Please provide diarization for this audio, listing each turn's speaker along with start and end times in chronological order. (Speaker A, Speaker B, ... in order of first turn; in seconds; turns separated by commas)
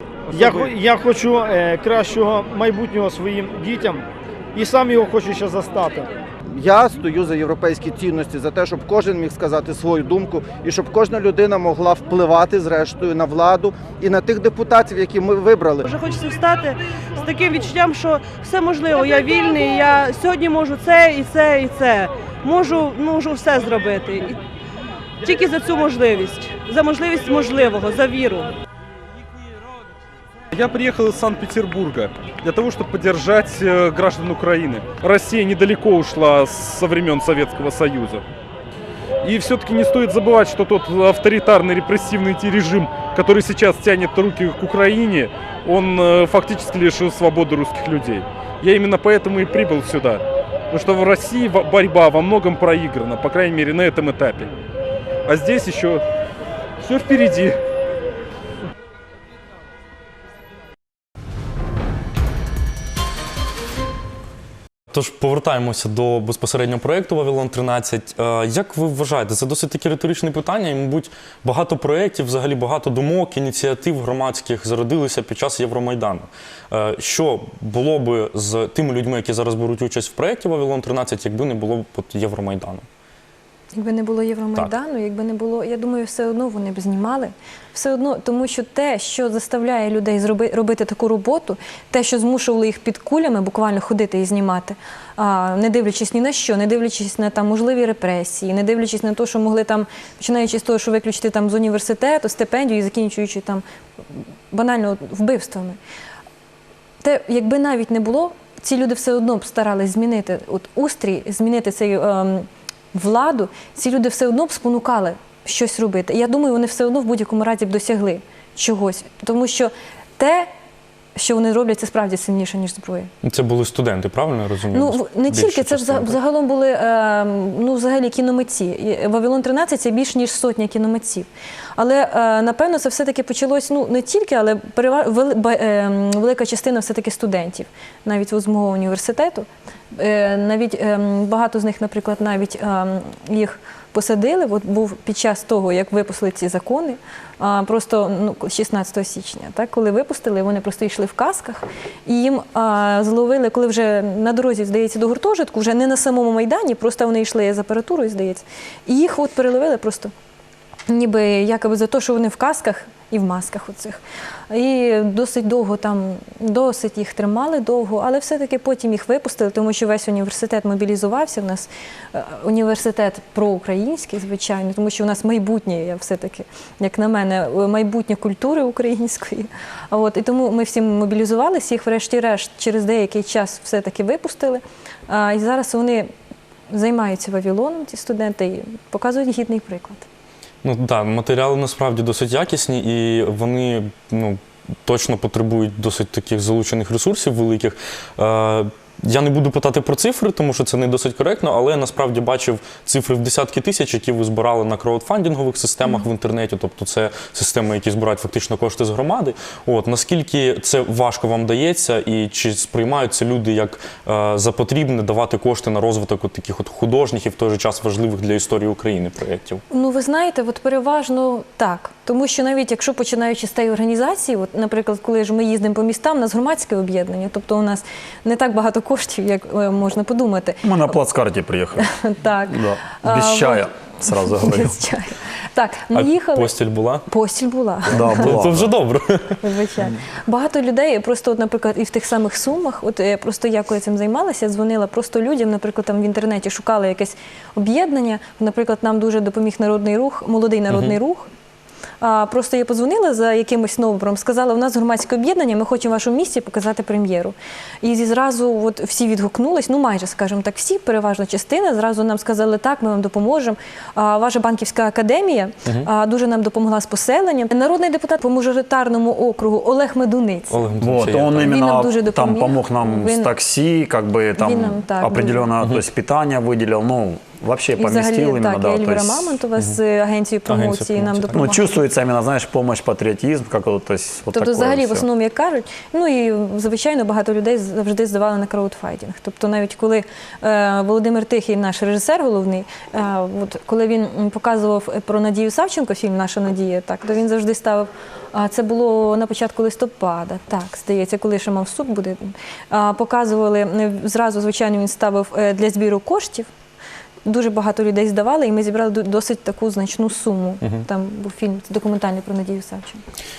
Speaker A: 0.3-6.1, Speaker B: 0.4-0.7, Speaker B: 6.5-15.8, Speaker C: 15.8-24.4, Speaker C: 25.2-28.5, Speaker D: 30.5-38.2, Speaker D: 39.2-54.5, Speaker D: 55.3-56.0, Speaker D: 56.8-57.6, Speaker E: 64.9-82.9, Speaker F: 83.7-105.8, Speaker F: 107.0-120.5, Speaker F: 121.2-123.1, Speaker E: 123.2-126.2, Speaker F: 124.7-160.1, Speaker F: 160.9-186.1, Speaker F: 186.7-190.1, Speaker E: 190.6-219.6, Speaker F: 219.7-230.6, Speaker G: 230.6-231.9, Speaker F: 231.8-236.5, Speaker G: 232.5-234.8, Speaker E: 235.9-237.1, Speaker F: 237.1-238.3, Speaker G: 237.9-238.7, Speaker E: 237.9-239.4, Speaker F: 239.4-251.3, Speaker E: 250.7-250.9, Speaker F: 252.0-270.7, Speaker E: 270.5-271.5, Speaker G: 270.8-279.4, Speaker F: 271.3-273.3, Speaker F: 274.4-275.5, Speaker F: 277.8-281.8, Speaker E: 280.5-281.4, Speaker G: 281.3-285.1, Speaker F: 284.3-306.5, Speaker F: 307.2-313.0